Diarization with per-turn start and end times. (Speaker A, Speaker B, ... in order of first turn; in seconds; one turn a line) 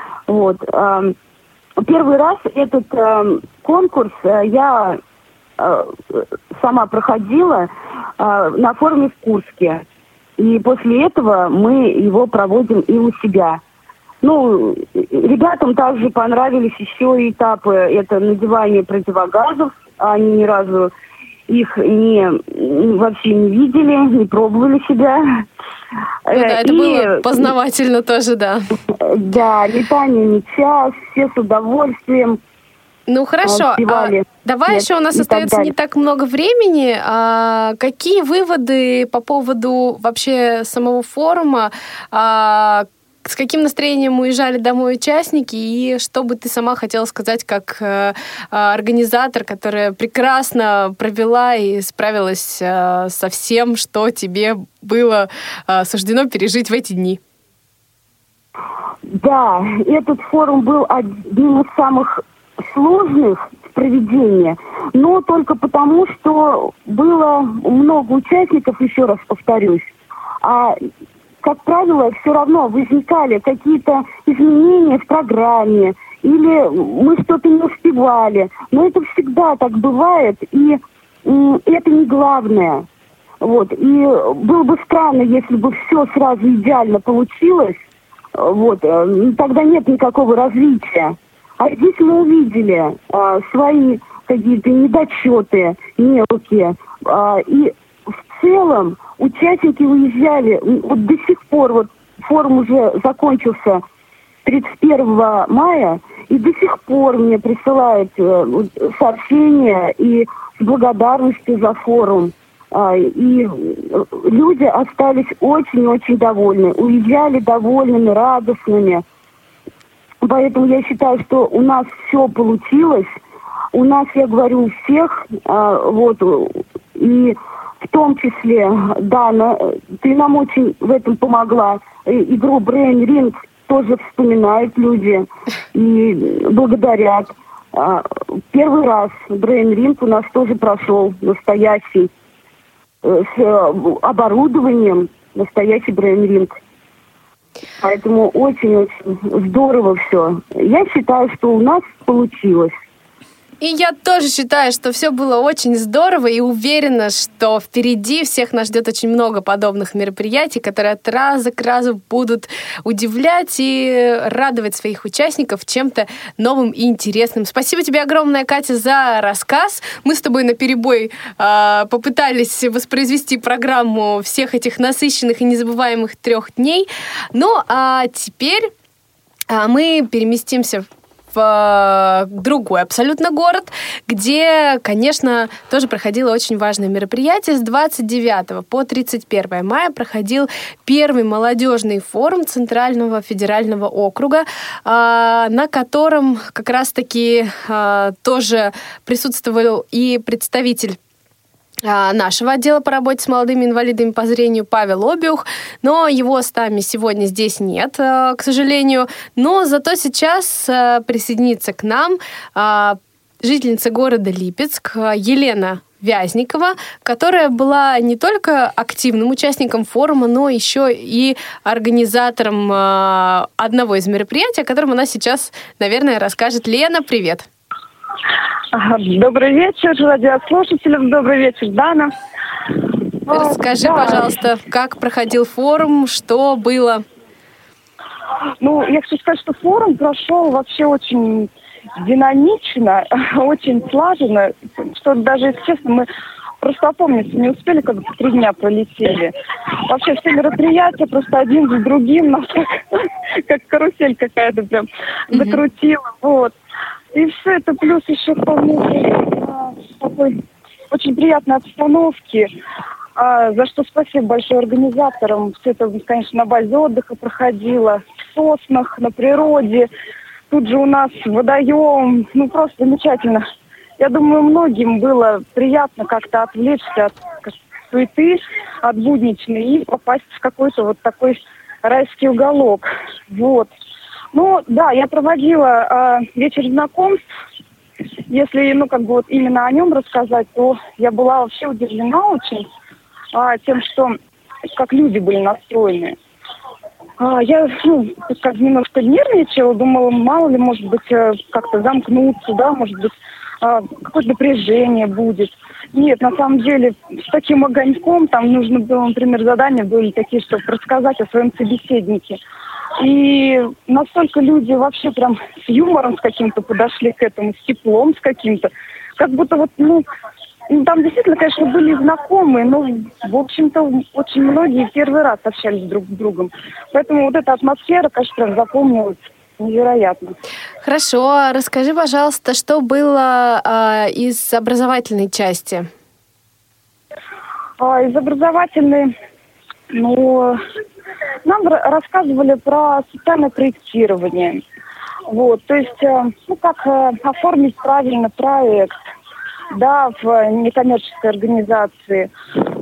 Speaker A: 0.3-1.1
Speaker A: 1.8-5.0
Speaker A: 5.6-9.8
Speaker A: 10.4-13.6
Speaker A: 14.2-20.9
Speaker A: 21.5-25.4
Speaker A: 26.2-27.4
Speaker B: 26.3-28.6
Speaker A: 29.0-32.4
Speaker B: 33.1-57.2
Speaker A: 33.5-35.7
Speaker A: 59.1-69.9
Speaker A: 70.4-70.8
Speaker A: 71.4-82.9
Speaker A: 83.4-87.8
Speaker A: 88.3-97.7
Speaker A: 98.3-103.8
Speaker A: 104.4-119.0
Speaker A: 120.2-123.2
Speaker A: 123.7-142.1
Speaker A: 143.0-146.6
Speaker A: 147.8-152.7
Speaker B: 153.6-178.7
Speaker B: 179.5-201.0
Speaker B: 201.8-227.5
Speaker C: 228.7-232.1
Speaker C: 233.3-234.3
Speaker B: 233.3-237.0
Speaker C: 238.6-246.1
Speaker C: 246.6-249.3
Speaker C: 249.9-256.5
Speaker B: 255.3-255.6
Speaker C: 257.1-260.3
Speaker C: 260.9-262.5
Speaker C: 263.1-269.9
Speaker C: 270.5-273.4
Speaker C: 274.0-283.7
Speaker C: 284.3-287.2
Speaker C: 288.3-292.7
Speaker C: 293.3-294.2
Speaker C: 294.7-296.1
Speaker C: 297.2-312.4
Speaker C: 313.0-320.0
Speaker C: 320.7-330.3
Speaker B: 330.8-335.9
Speaker C: 337.8-339.1
Speaker C: 339.9-340.6
Speaker C: 341.4-344.6
Speaker C: 345.3-348.9
Speaker C: 349.7-352.3